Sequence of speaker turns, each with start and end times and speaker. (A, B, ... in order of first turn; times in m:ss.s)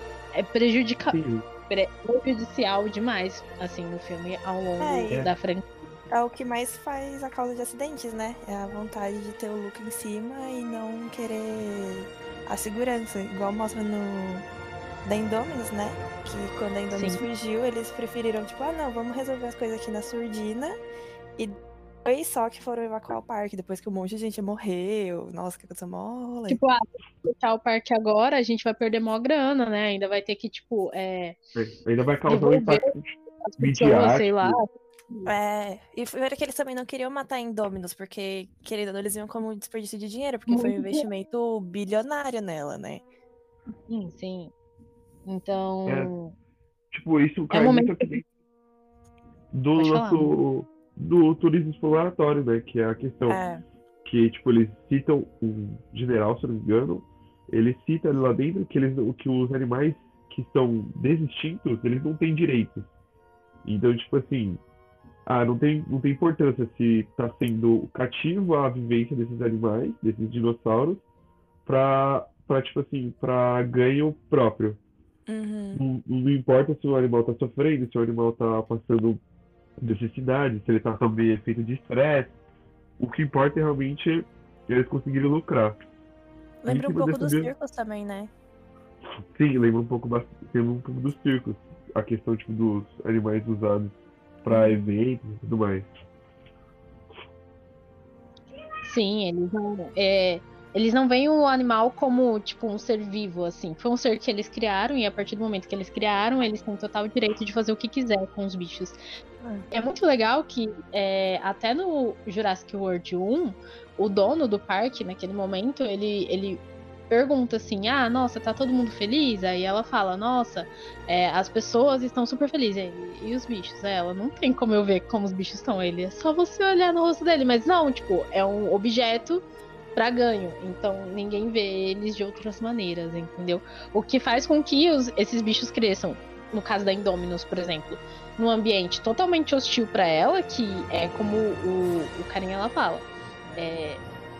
0:00.3-0:05.7 A
0:01.1-0:01.4 B
0:04.8-0:05.3 C
0:06.1-0:14.5 C
0:15.0-0:20.8 C
0:16.9-0:17.2 A
0:21.4-0:26.6 C
0:26.5-0:31.4 A
0:31.6-0:34.6 B
0:32.3-0:32.8 A
0:33.4-0:35.3 A
0:35.3-0:43.0 C
0:40.5-0:41.0 A
0:43.9-0:44.5 A
0:45.3-0:46.3 A
0:45.9-0:46.1 B
0:46.9-0:48.3 B
0:47.5-0:48.1 A
0:49.5-0:53.4 B
0:49.8-0:50.4 A
0:53.3-0:53.6 C
0:54.0-1:02.9 B
1:03.6-1:04.6 B
1:05.3-1:11.0 B
1:11.6-1:14.8 B
1:15.3-1:15.8 C
1:15.8-1:19.2 B
1:19.8-1:22.3 B
1:23.0-1:25.8 B
1:26.6-1:28.3 C
1:26.7-1:27.5 B
1:29.3-1:35.9 B
1:34.5-1:35.0 C
1:38.8-1:49.0 A
1:49.7-2:09.4 A
2:10.0-2:24.0 A